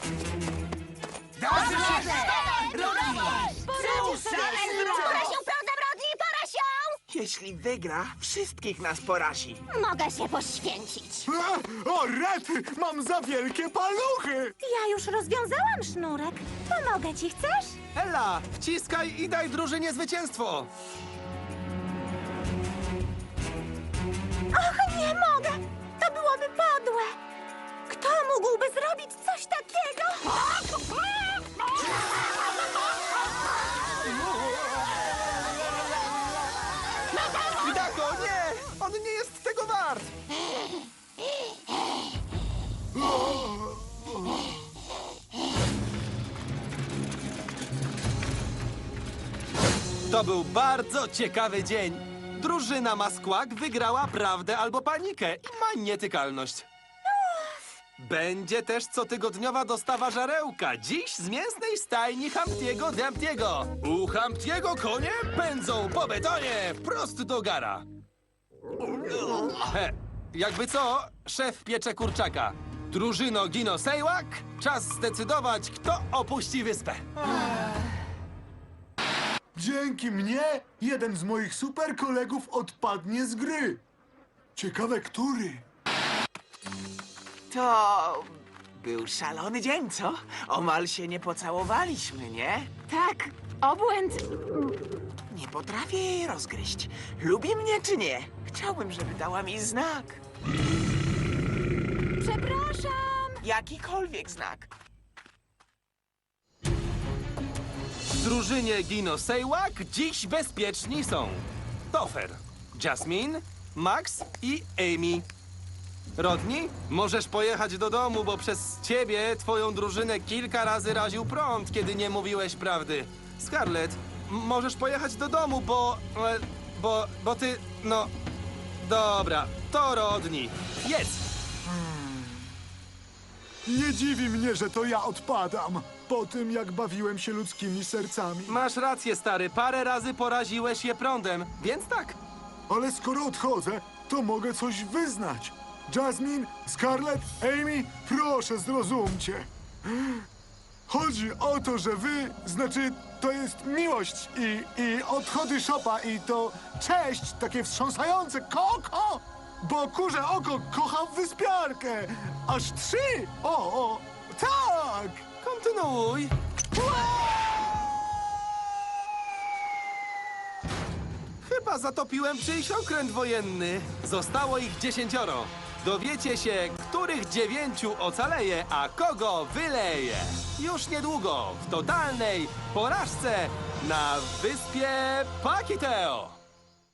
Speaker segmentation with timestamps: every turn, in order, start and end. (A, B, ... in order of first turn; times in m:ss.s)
0:01.5-0:03.1 A
0:01.6-0:02.1 B
0:02.6-0:05.2 B
0:03.7-0:07.0 A
0:07.1-0:09.6 C
0:09.7-0:11.2 A
0:11.2-0:14.5 D
0:14.6-0:17.8 B
0:17.9-0:20.7 E
0:24.5-0:27.2 B
0:27.9-0:30.4 B
0:37.4-0:40.1 E
0:50.1-0:56.7 E
0:58.0-1:07.8 E
1:09.7-1:17.0 E
1:19.5-1:23.8 D
1:24.5-1:25.6 D
1:27.5-1:32.7 C
1:32.9-1:34.2 B
1:35.3-1:40.2 C
1:42.2-1:43.4 B
1:43.4-1:44.7 C
1:48.1-1:55.2 E
1:56.2-2:08.1 E
2:08.8-2:11.2 E
2:11.7-2:12.3 D
2:13.6-2:18.6 D
2:18.5-2:22.2 E
2:22.7-2:30.2 D
2:30.9-2:45.2 D
2:45.4-2:46.3 E
2:51.4-3:06.4 E